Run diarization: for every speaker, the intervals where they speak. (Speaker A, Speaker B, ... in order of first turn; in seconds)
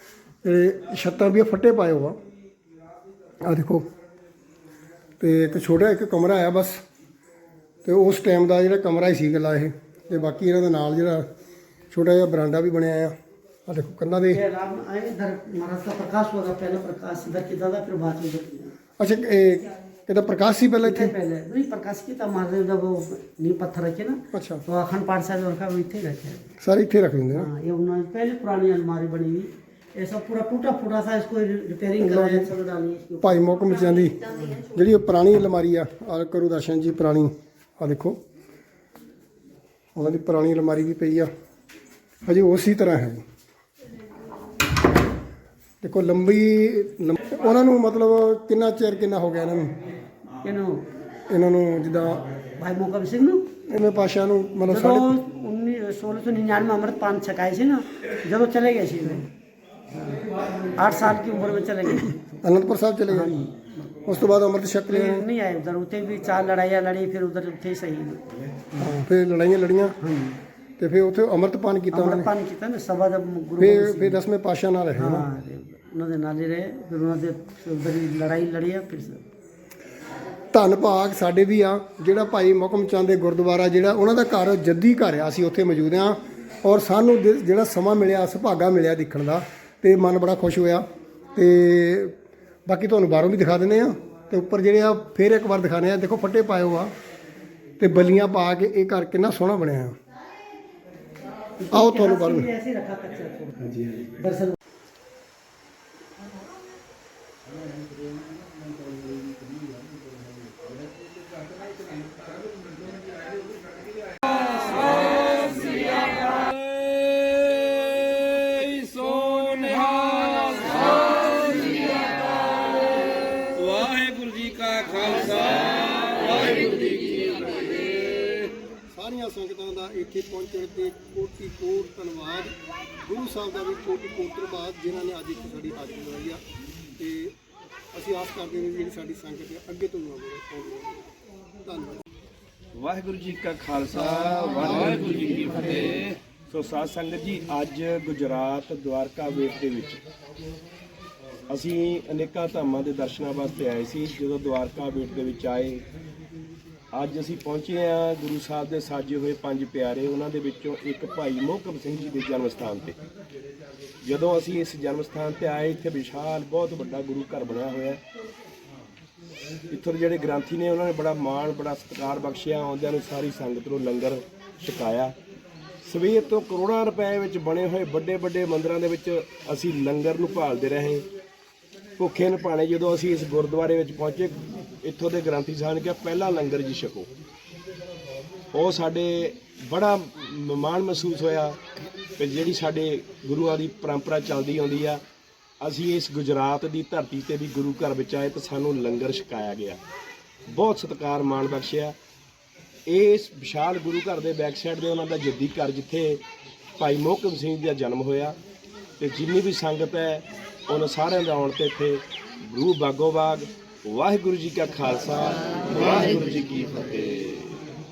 Speaker A: 0.4-2.2, 3.4-3.9, 5.2-6.8, 7.8-11.3, 11.9-13.2, 13.7-14.4, 19.0-21.1, 24.3-24.6, 26.6-27.5, 32.0-32.5, 33.2-38.2, 40.0-41.3, 42.2-43.2, 45.8-49.8, 51.3-52.3, 53.7-55.1, 62.4-63.4, 64.0-65.3, 68.8-70.0, 70.8-72.3, 73.6-75.3, 80.5-92.2, 92.7-96.9, 97.8-100.0, 101.7-102.5, 128.9-136.4, 137.0-137.3, 137.9-141.0, 141.6-142.0, 144.1-145.0
Speaker B: 14.3-18.8, 20.8-26.4, 27.3-33.5, 50.4-50.9, 52.6-53.5, 54.7-59.3, 60.8-62.4, 63.1-63.7, 64.9-68.2, 70.0-70.4, 71.9-74.2, 75.0-79.2, 101.6-104.6
Speaker C: 103.7-104.2, 114.6-121.9, 123.5-128.5, 142.7-150.0, 151.5-155.8, 156.9-163.0, 164.0-168.0, 169.7-175.2, 175.8-181.1, 182.0-187.1, 188.5-191.6, 192.2-195.0, 195.6-199.8, 200.5-202.0, 202.9-206.2, 206.8-208.4, 209.0-217.6